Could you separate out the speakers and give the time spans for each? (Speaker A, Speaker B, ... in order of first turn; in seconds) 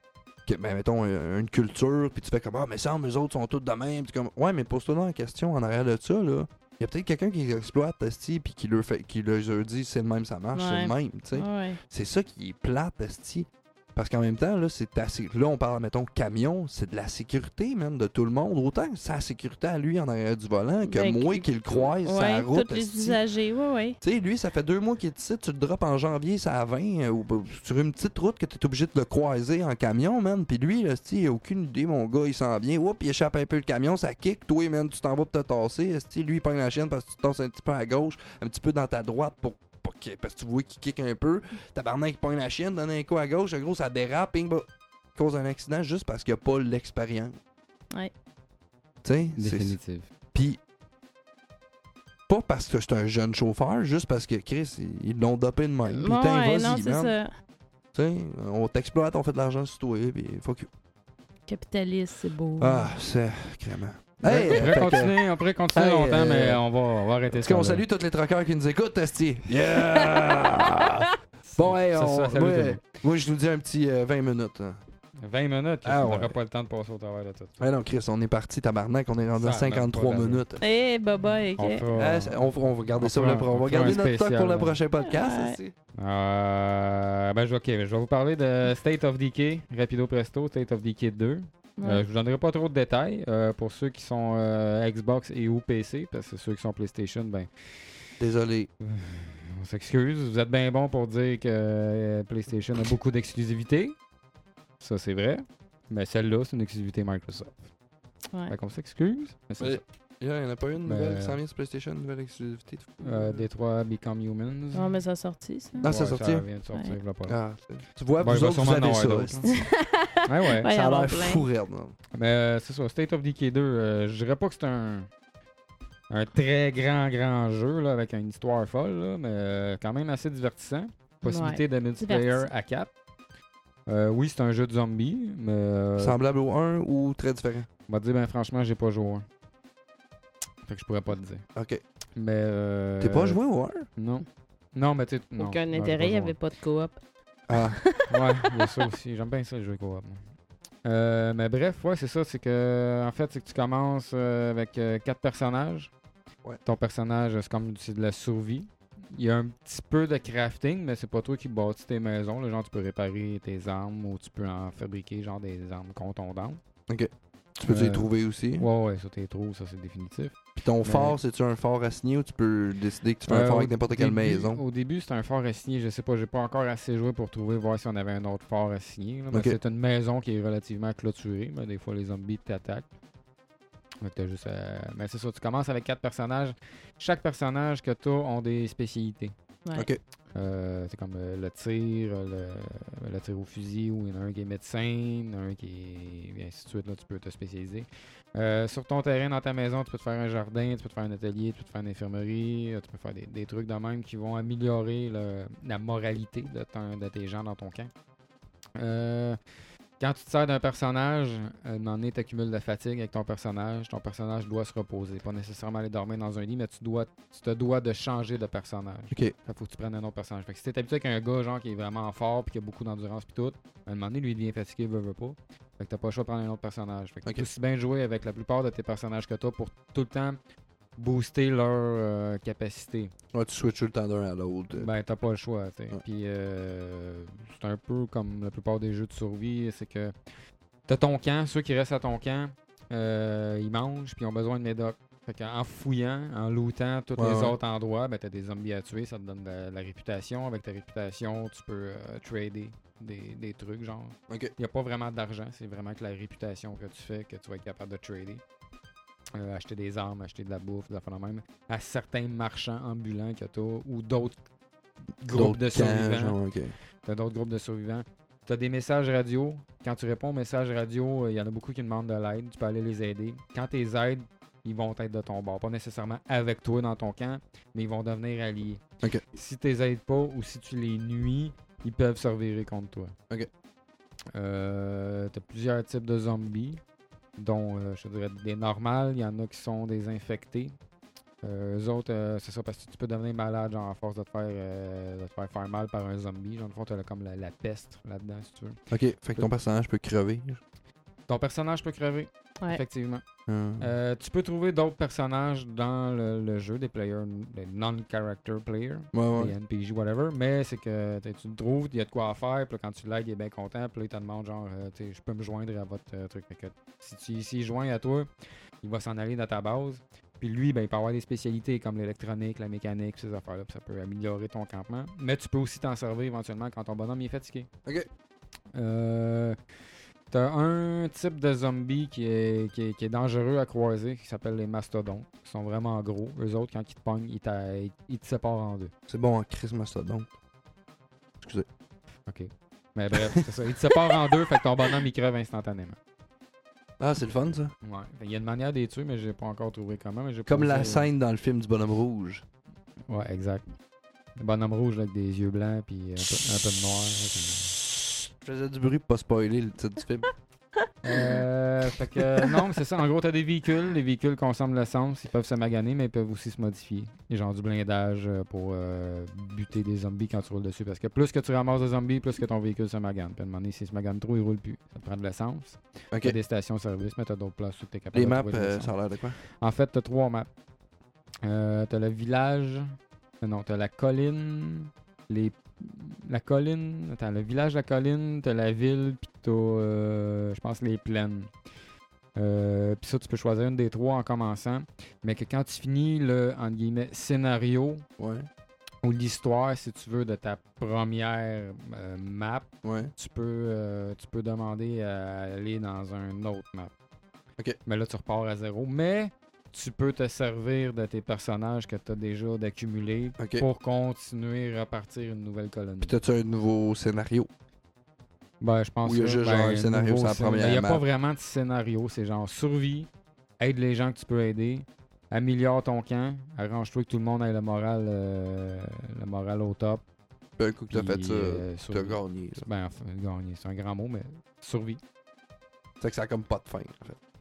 Speaker A: 0.5-23.2, 24.0-47.4, 49.0-49.8, 50.3-50.6, 52.3-57.1, 57.9-60.7, 62.6-65.1, 65.7-66.6, 67.3-74.8, 75.8-76.3, 77.6-80.6, 81.9-85.7, 98.2-98.7, 109.6-113.4, 115.8-116.5, 117.3-119.7, 120.7-121.9, 136.0-137.7, 141.6-141.8, 143.0-143.9, 147.5-147.8, 166.9-168.7, 170.6-174.6, 179.3-179.6, 189.7-190.0, 233.3-234.9, 247.2-247.5, 254.3-254.5, 265.2-266.7, 298.9-300.6, 303.5-303.9, 309.1-309.5, 339.1-340.3, 341.4-341.7, 343.1-343.4, 347.0-347.7, 350.5-352.4, 358.4-360.3, 378.1-379.4, 398.2-398.5, 402.8-403.1, 413.4-413.6, 416.0-417.5, 419.0-421.0, 430.6-432.6, 436.0-437.2
Speaker B: 10.5-11.8, 20.9-24.0, 55.9-57.3, 61.5-62.9, 69.7-71.0, 80.6-81.8, 85.0-85.6, 91.8-92.0, 114.7-115.9, 119.5-121.4, 131.2-132.5, 145.4-147.0, 147.6-148.7
Speaker C: 49.4-50.1, 64.2-67.8, 71.4-72.8, 75.2-77.6, 79.4-80.4, 81.5-82.4, 83.0-84.8, 86.0-97.5, 98.8-104.0, 104.8-107.7, 108.5-109.8, 110.8-111.4, 113.0-115.0, 115.8-117.4, 118.2-119.6, 120.2-120.7, 122.1-125.1, 126.1-132.9, 133.9-136.2, 137.9-139.2, 140.7-141.4, 142.2-143.4, 143.9-146.4, 148.1-150.2, 150.8-155.9, 156.6-166.6, 167.7-171.2, 173.3-182.9, 184.0-189.3, 190.3-207.9, 208.8-209.4, 210.0-230.4, 231.0-233.1, 234.7-240.1, 240.9-258.4, 259.3-264.4, 265.2-266.4, 267.0-278.8, 279.3-283.1, 284.3-286.8, 287.4-290.8, 291.4-298.8, 301.3-303.2, 303.8-318.3, 318.8-327.7, 328.7-329.6, 330.3-338.9, 342.3-346.0, 347.8-351.1, 353.1-353.7, 354.4-357.8, 361.0-378.9, 379.6-380.5, 381.4-391.5, 392.4-398.0, 399.0-406.9, 407.9-416.2, 418.6-430.0, 430.9-435.0